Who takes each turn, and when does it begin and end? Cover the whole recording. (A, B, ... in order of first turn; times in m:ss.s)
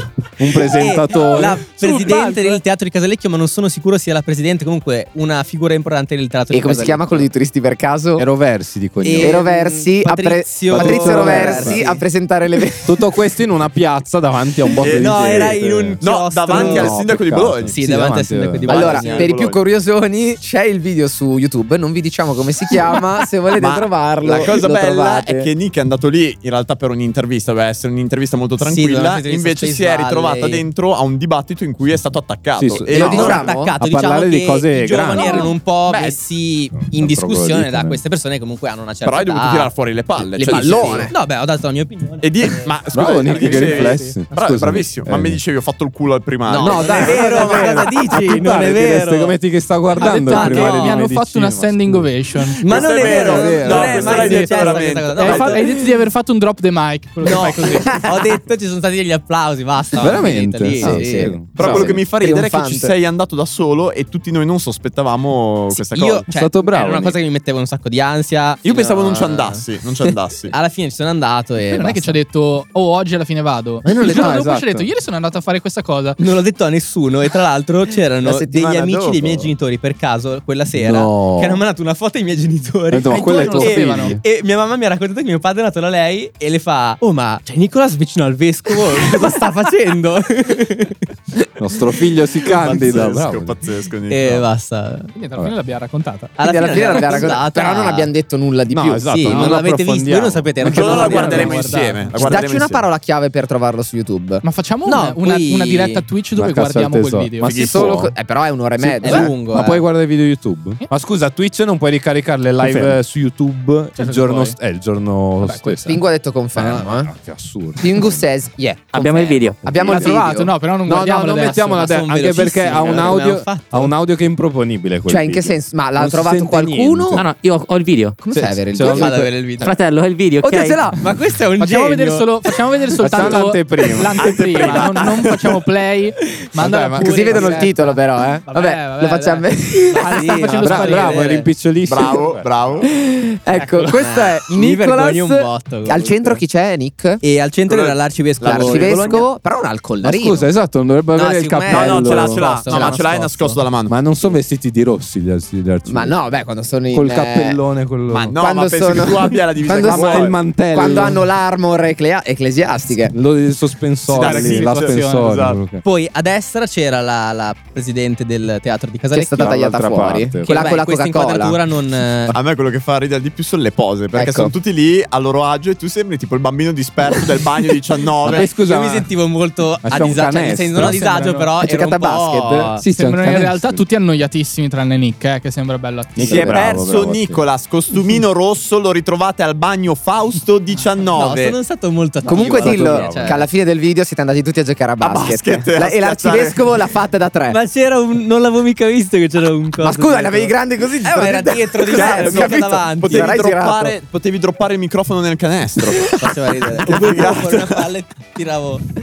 0:00.4-0:01.6 A
0:00.6-0:07.3 B
0:01.8-0:02.6 C
0:06.5-0:08.3 D
0:08.2-0:09.4 A
0:09.0-0:12.0 B
0:09.2-0:12.9 D
0:10.7-0:11.8 A
0:12.8-0:19.0 A
0:14.8-0:17.0 B
0:14.8-0:17.8 E
0:17.7-0:19.4 B
0:18.7-0:25.5 D
0:18.8-0:19.6 E
0:23.6-0:33.5 E
0:28.6-0:30.7 B
0:32.6-0:35.5 A
0:33.0-0:33.8 D
0:33.0-0:39.7 B
0:35.2-0:36.1 C
0:36.7-0:38.0 A
0:39.0-0:41.1 E
0:40.4-0:41.1 D
0:40.4-0:42.7 B
0:42.2-0:47.9 E
0:42.9-0:45.4 A
0:43.2-0:44.0 B
0:46.5-0:49.4 B
0:46.6-0:52.2 A
0:50.0-0:51.0 B
0:50.0-0:52.7 C
0:52.6-0:55.8 B
0:52.6-0:55.6 E
0:53.0-0:54.3 A
0:54.2-0:58.0 C
0:57.2-1:01.4 B
1:00.0-1:02.0 A
1:00.8-1:02.9 D
1:01.6-1:06.3 E
1:05.7-1:09.6 B
1:06.3-1:07.2 A
1:08.6-1:10.6 E
1:10.5-1:12.2 B
1:11.7-1:16.2 C
1:13.8-1:14.9 A
1:16.2-1:31.0 B
1:18.2-1:19.5 D
1:20.8-1:21.6 A
1:22.9-1:24.2 A
1:23.1-1:24.2 C
1:31.6-1:33.6 A
1:32.5-1:34.5 E
1:34.1-1:35.1 B
1:35.2-1:37.2 C
1:36.4-1:38.1 B
1:36.4-1:39.5 D
1:38.7-1:41.2 A
1:39.0-1:41.7 B
1:40.6-1:42.9 E
1:40.7-1:42.2 C
1:42.2-1:44.4 D
1:44.4-1:47.6 C
1:44.9-1:46.0 B
1:46.4-1:48.1 A
1:47.4-1:47.9 E
1:47.5-1:49.4 D
1:48.8-1:56.0 A
1:49.0-1:49.8 B
1:54.0-1:54.6 C
1:55.4-1:55.8 C
1:55.8-1:57.1 D
1:56.5-1:58.2 A
1:57.8-2:00.5 D
1:58.9-2:00.0 F
1:59.6-2:00.1 A
1:59.9-2:01.9 C
2:00.8-2:07.2 A
2:01.6-2:03.9 B
2:05.1-2:07.3 D
2:07.1-2:08.2 F
2:08.2-2:09.6 D
2:08.3-2:09.1 A
2:08.8-2:09.7 B
2:09.6-2:10.9 F
2:10.4-2:11.0 D
2:11.0-2:12.4 B
2:11.6-2:21.4 C
2:13.0-2:14.7 A
2:14.2-2:15.5 E
2:16.6-2:17.6 A
2:17.0-2:20.5 D
2:19.9-2:21.5 B
2:20.6-2:22.9 A
2:21.8-2:22.9 E
2:22.9-2:27.2 D
2:23.6-2:24.1 C
2:24.0-2:26.4 B
2:27.2-2:29.3 B
2:27.7-2:29.3 E
2:28.4-2:30.5 D
2:30.0-2:32.5 A
2:31.1-2:33.6 B
2:31.7-2:34.0 E
2:32.7-2:33.0 D
2:33.9-2:36.2 A
2:35.9-2:37.6 D
2:36.9-2:38.4 A
2:38.1-2:40.4 E
2:38.4-2:43.2 D
2:39.7-2:41.3 A
2:43.1-2:45.8 A
2:44.1-2:45.6 E
2:44.1-2:45.4 C
2:45.8-2:49.6 B
2:49.1-2:51.6 D
2:49.4-2:50.6 A
2:50.4-2:52.4 B
2:52.3-2:58.5 E
2:54.2-2:54.5 D
2:58.3-2:59.1 A
2:58.3-3:02.8 B
2:59.8-3:01.0 A
3:00.8-3:01.5 C
3:01.6-3:02.7 D
3:02.8-3:03.8 A
3:02.8-3:06.5 C
3:06.2-3:07.4 A
3:06.3-3:11.6 E
3:11.2-3:13.5 B
3:12.2-3:17.6 D
3:12.6-3:13.4 A
3:15.0-3:16.7 E
3:17.5-3:23.4 B
3:19.8-3:24.0 D
3:21.9-3:27.9 E
3:26.2-3:28.8 B